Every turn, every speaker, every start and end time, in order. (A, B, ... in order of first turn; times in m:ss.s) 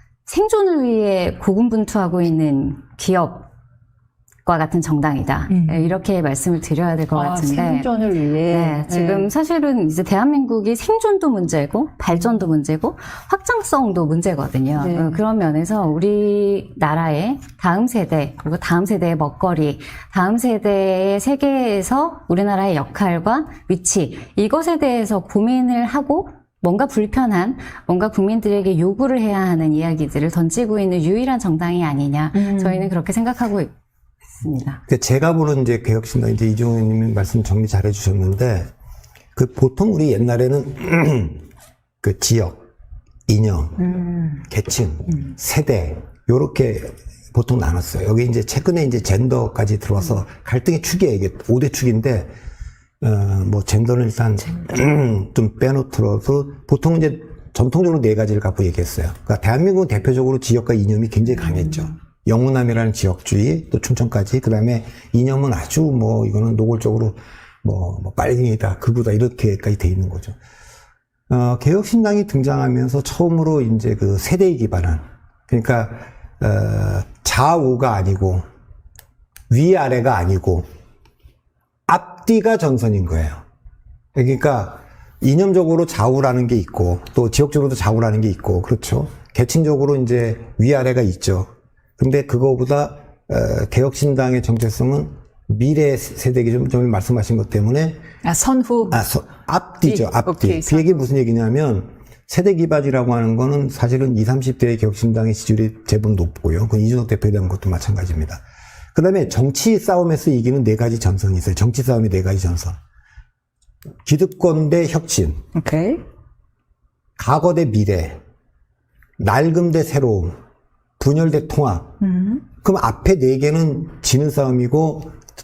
0:00.3-0:03.5 A
0:04.4-0:07.9 A
0:05.5-0:05.9 B
0:07.1-0:09.3 B
0:08.5-0:33.7 A
0:14.8-0:15.2 B
0:32.3-0:32.9 B
0:34.4-0:34.8 A
0:34.9-0:38.7 C
0:39.3-0:41.4 C
0:42.0-0:42.6 C
0:43.3-0:52.3 C
0:43.8-0:44.4 B
0:53.0-1:10.4 C
1:11.3-1:18.4 C
1:19.5-1:20.6 C
1:21.9-1:23.4 C
1:24.1-1:38.0 C
1:38.2-1:39.0 B
1:38.9-1:48.4 C
1:39.8-1:40.9 B
1:48.9-1:52.8 C
1:54.0-1:55.4 C
1:55.5-1:56.0 B
1:57.2-1:58.2 C
1:59.2-2:00.3 C
2:01.0-2:02.0 C
2:02.0-2:02.4 B
2:02.6-2:05.2 C